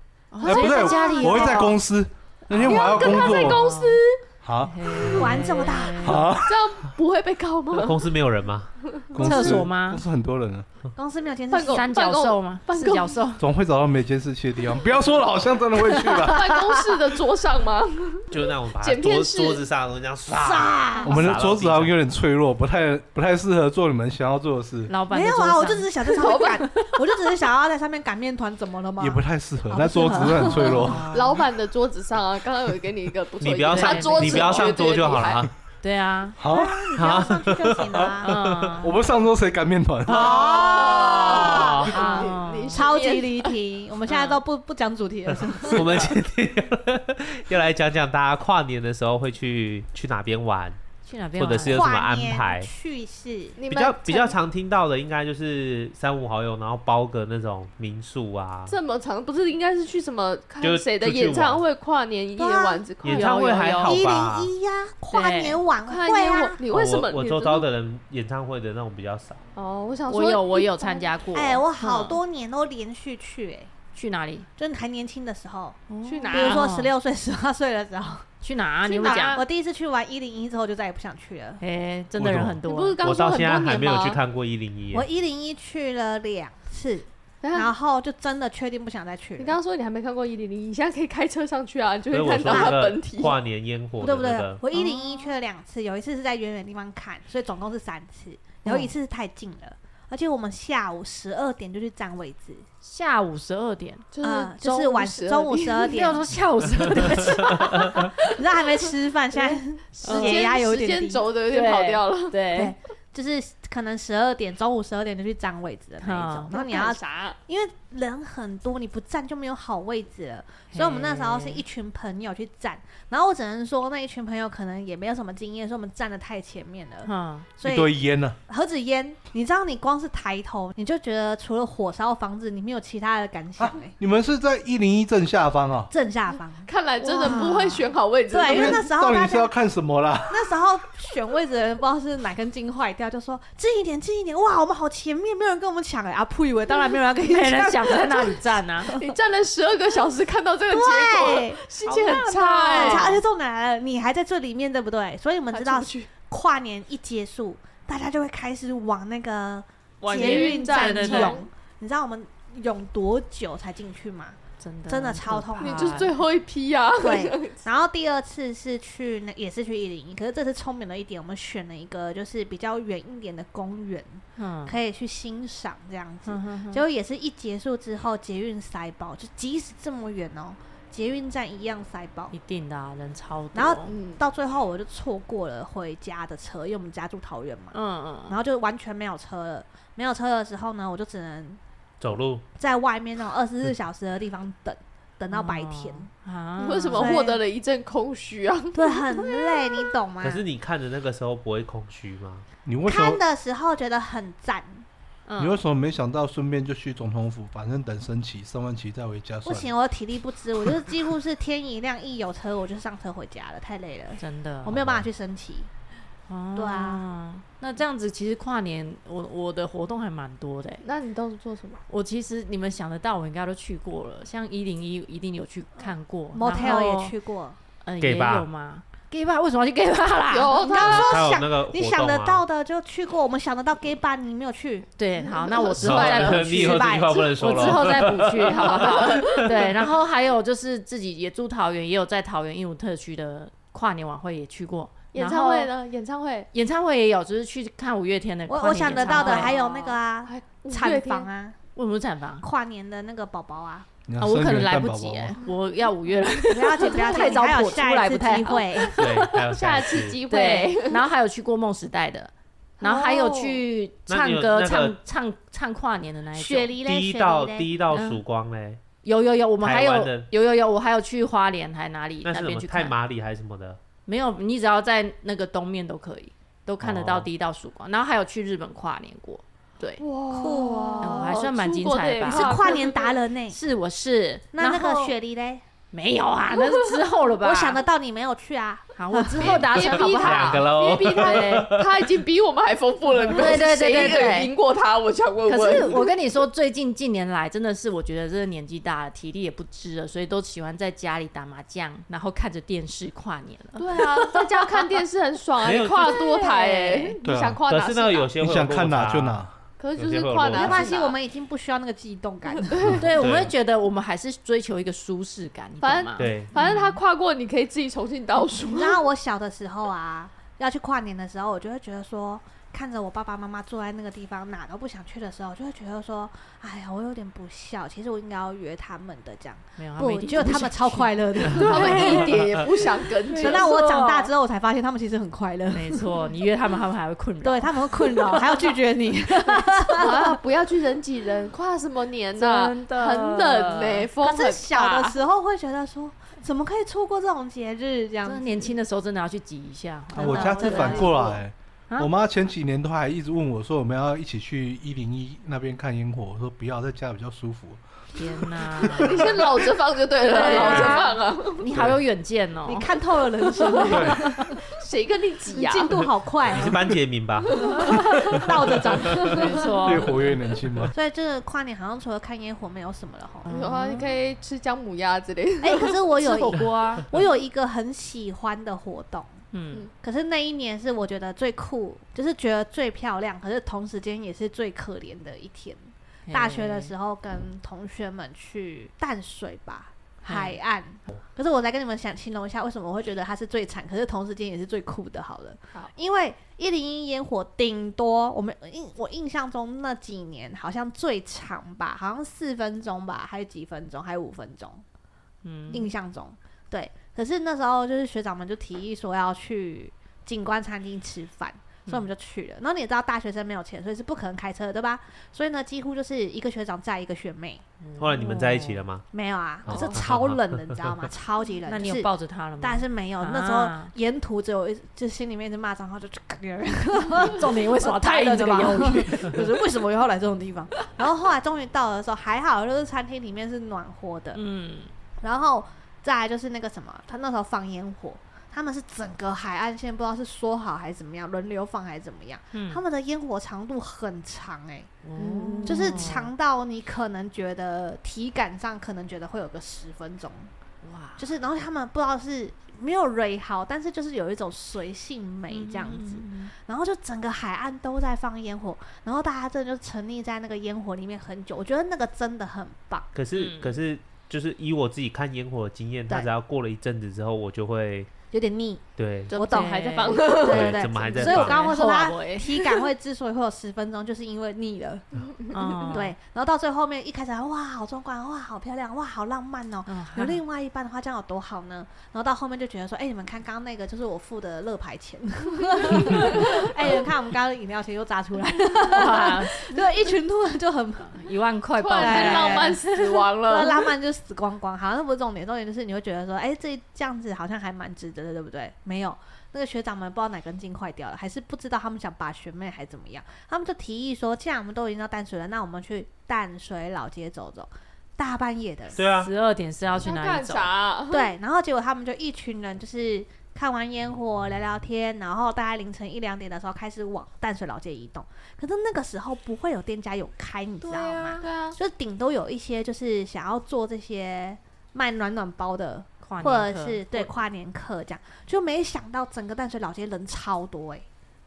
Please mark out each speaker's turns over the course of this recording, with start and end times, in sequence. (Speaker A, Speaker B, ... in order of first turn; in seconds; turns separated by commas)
Speaker A: 0.3-1.8, Speaker B: 0.4-3.6, Speaker C: 0.5-1.5, Speaker D: 0.6-1.6, Speaker C: 2.5-4.2, Speaker D: 2.7-3.3, Speaker A: 3.4-4.0, Speaker B: 4.4-5.4, Speaker A: 4.6-6.3, Speaker D: 5.1-6.3, Speaker B: 6.0-6.9, Speaker C: 6.4-8.1, Speaker E: 7.7-8.7, Speaker C: 8.9-9.2, Speaker B: 9.1-10.7, Speaker A: 9.2-10.0, Speaker D: 10.9-11.9, Speaker C: 11.5-13.2, Speaker A: 11.7-13.4, Speaker B: 13.4-16.7, Speaker C: 16.0-19.6, Speaker E: 18.3-22.0, Speaker D: 20.3-21.2, Speaker B: 21.1-24.9, Speaker A: 24.9-26.9, Speaker D: 25.1-31.1, Speaker C: 26.2-26.8, Speaker B: 29.0-31.2, Speaker A: 30.3-31.4, Speaker C: 31.1-35.5, Speaker E: 33.4-35.5, Speaker A: 33.5-34.7, Speaker A: 35.8-36.4, Speaker B: 36.4-37.1, Speaker D: 36.5-38.4, Speaker E: 37.0-38.8, Speaker B: 37.8-38.1, Speaker A: 38.2-39.0, Speaker B: 38.8-40.5, Speaker E: 40.1-41.9, Speaker D: 40.1-42.2, Speaker C: 40.2-43.5, Speaker A: 41.4-42.9, Speaker D: 42.8-46.0, Speaker A: 44.1-44.4, Speaker E: 45.3-50.8, Speaker A: 51.1-51.9, Speaker E: 51.4-52.7, Speaker D: 51.7-53.6, Speaker C: 53.6-54.4, Speaker E: 53.7-58.8, Speaker C: 58.7-63.8, Speaker E: 60.6-61.6, Speaker D: 62.4-62.9, Speaker E: 63.0-64.5, Speaker A: 63.1-64.0, Speaker D: 63.8-66.6, Speaker A: 65.1-65.6, Speaker C: 65.8-67.7, Speaker E: 66.7-69.4, Speaker C: 69.6-71.1, Speaker A: 70.1-72.2, Speaker D: 71.3-73.7, Speaker A: 73.9-74.5, Speaker D: 74.6-78.3, Speaker A: 75.9-76.9, Speaker C: 76.1-76.7, Speaker A: 78.4-79.4, Speaker C: 78.9-79.5, Speaker D: 79.0-81.6, Speaker A: 81.6-83.0, Speaker E: 82.2-85.1, Speaker C: 82.7-84.2, Speaker D: 84.9-89.6, Speaker C: 87.4-87.7, Speaker C: 89.4-93.4, Speaker E: 92.1-94.6, Speaker D: 92.5-92.8, Speaker D: 94.0-102.7, Speaker C: 94.8-95.3, Speaker A: 98.7-98.9, Speaker A: 102.8-104.1, Speaker C: 104.1-106.1, Speaker D: 104.2-106.3, Speaker A: 105.9-108.1, Speaker D: 108.2-111.3, Speaker C: 109.3-112.4, Speaker A: 110.0-110.5, Speaker A: 111.5-112.7, Speaker D: 112.5-128.0, Speaker A: 116.0-116.5, Speaker C: 116.5-117.4, Speaker A: 120.7-121.6, Speaker A: 127.0-127.5, Speaker B: 127.6-128.4, Speaker D: 128.5-133.9, Speaker B: 133.6-135.9, Speaker D: 135.9-139.5, Speaker C: 136.7-138.9, Speaker A: 137.2-137.8, Speaker B: 138.5-140.6, Speaker D: 140.3-148.3, Speaker A: 147.2-148.9, Speaker C: 148.9-153.2, Speaker D: 150.7-151.6, Speaker A: 151.8-153.2, Speaker D: 152.5-166.1, Speaker C: 155.5-156.1, Speaker A: 160.0-161.4, Speaker C: 160.0-161.5, Speaker A: 164.6-166.2, Speaker C: 165.6-167.6, Speaker D: 167.0-182.3, Speaker A: 174.4-174.8, Speaker A: 176.2-176.8, Speaker A: 182.3-184.0, Speaker D: 183.5-187.8, Speaker C: 183.9-184.2, Speaker A: 187.7-188.4, Speaker D: 188.3-191.6, Speaker E: 192.0-192.4, Speaker D: 192.6-196.1, Speaker A: 195.3-197.2, Speaker C: 196.6-199.9, Speaker D: 196.9-197.4, Speaker D: 198.7-200.4, Speaker E: 200.2-202.4, Speaker B: 202.7-203.2, Speaker D: 202.9-204.8, Speaker A: 205.3-205.6, Speaker B: 205.4-209.7, Speaker D: 209.4-215.7, Speaker A: 214.2-214.9, Speaker A: 216.3-220.8, Speaker D: 216.6-217.0, Speaker C: 220.8-221.8, Speaker A: 221.9-227.2, Speaker D: 226.3-227.6, Speaker A: 227.8-230.8, Speaker E: 228.0-228.5, Speaker C: 230.3-231.3, Speaker D: 230.6-234.9, Speaker E: 230.7-232.4, Speaker A: 235.0-245.7, Speaker C: 235.2-236.5, Speaker D: 235.5-237.8, Speaker E: 235.8-239.4, Speaker C: 238.4-239.6, Speaker C: 245.1-246.5, Speaker A: 246.5-249.6, Speaker D: 248.5-251.6, Speaker C: 248.8-251.3, Speaker A: 251.8-252.5, Speaker D: 252.4-253.9, Speaker B: 254.1-255.3, Speaker A: 254.2-259.3, Speaker D: 256.5-259.0, Speaker E: 259.0-260.2, Speaker C: 259.0-261.0, Speaker A: 260.2-266.7, Speaker C: 262.8-263.6, Speaker E: 264.1-265.0, Speaker D: 266.4-267.7, Speaker E: 266.8-268.8, Speaker A: 267.9-268.2, Speaker A: 269.0-272.9, Speaker E: 269.6-270.3, Speaker E: 272.2-273.8, Speaker A: 274.1-280.0, Speaker E: 276.8-277.3, Speaker C: 280.0-283.2, Speaker D: 280.3-281.3, Speaker A: 281.0-282.8, Speaker D: 282.3-283.6, Speaker A: 283.5-285.1, Speaker D: 284.5-285.6, Speaker A: 285.9-287.8, Speaker D: 287.4-289.5, Speaker A: 289.0-291.7, Speaker E: 289.4-292.2, Speaker C: 289.5-296.1, Speaker A: 293.3-294.5, Speaker A: 295.4-304.9, Speaker C: 303.8-308.3, Speaker E: 305.6-306.2, Speaker A: 305.9-307.2, Speaker B: 307.2-307.6, Speaker E: 307.7-309.4, Speaker B: 308.4-309.5, Speaker C: 309.8-311.2, Speaker E: 310.0-310.9, Speaker D: 310.6-313.0, Speaker C: 312.6-313.2, Speaker A: 313.0-317.0, Speaker E: 313.1-313.5, Speaker C: 315.8-319.0, Speaker E: 316.2-316.5, Speaker D: 318.7-332.4, Speaker A: 329.8-334.3, Speaker C: 331.6-333.7, Speaker D: 333.4-336.1, Speaker A: 335.7-338.6, Speaker D: 337.4-340.4, Speaker C: 340.0-345.2, Speaker A: 342.4-344.1, Speaker D: 344.2-348.8, Speaker A: 348.2-351.2, Speaker B: 350.2-359.5, Speaker D: 350.2-350.8, Speaker C: 350.2-351.4, Speaker A: 358.1-359.4, Speaker C: 358.9-361.7, Speaker A: 360.3-362.9, Speaker D: 360.4-361.0, Speaker D: 362.6-364.6, Speaker A: 363.6-364.4, Speaker C: 363.8-366.1, Speaker B: 363.9-364.2, Speaker D: 365.5-366.8, Speaker E: 366.5-369.3, Speaker C: 367.5-369.4, Speaker D: 367.7-370.0, Speaker A: 367.8-370.3, Speaker B: 369.8-370.9, Speaker D: 370.9-373.5, Speaker A: 373.4-374.1, Speaker C: 373.5-376.0, Speaker D: 375.6-379.3, Speaker A: 376.2-377.1, Speaker A: 379.5-379.9, Speaker D: 380.0-404.8, Speaker A: 386.3-386.9, Speaker A: 390.2-390.6, Speaker A: 405.4-405.9, Speaker D: 405.7-417.6, Speaker A: 417.8-418.9, Speaker E: 418.0-419.1, Speaker D: 419.1-434.4, Speaker E: 419.7-421.0, Speaker C: 419.7-420.0, Speaker A: 421.7-423.9, Speaker A: 427.2-429.5, Speaker A: 434.3-434.9, Speaker D: 435.2-444.9, Speaker A: 442.5-442.8, Speaker A: 445.0-446.3, Speaker C: 445.2-446.0, Speaker D: 445.6-450.5, Speaker A: 450.8-451.3, Speaker D: 451.2-463.1, Speaker A: 455.5-456.5, Speaker E: 463.1-468.1, Speaker A: 463.3-463.8, Speaker D: 468.3-475.1, Speaker E: 469.0-469.3, Speaker C: 469.3-471.3, Speaker A: 469.4-472.5, Speaker E: 470.4-471.7, Speaker C: 475.5-475.9, Speaker A: 475.5-476.1, Speaker D: 475.9-491.3, Speaker A: 479.9-480.4, Speaker C: 486.1-486.6, Speaker A: 488.9-489.6, Speaker A: 491.1-493.1, Speaker C: 491.8-493.9, Speaker D: 492.0-509.0, Speaker E: 509.0-509.3, Speaker A: 509.1-510.7, Speaker C: 510.0-511.3, Speaker D: 511.1-531.1, Speaker A: 520.8-521.6, Speaker C: 521.4-521.8, Speaker A: 526.2-527.3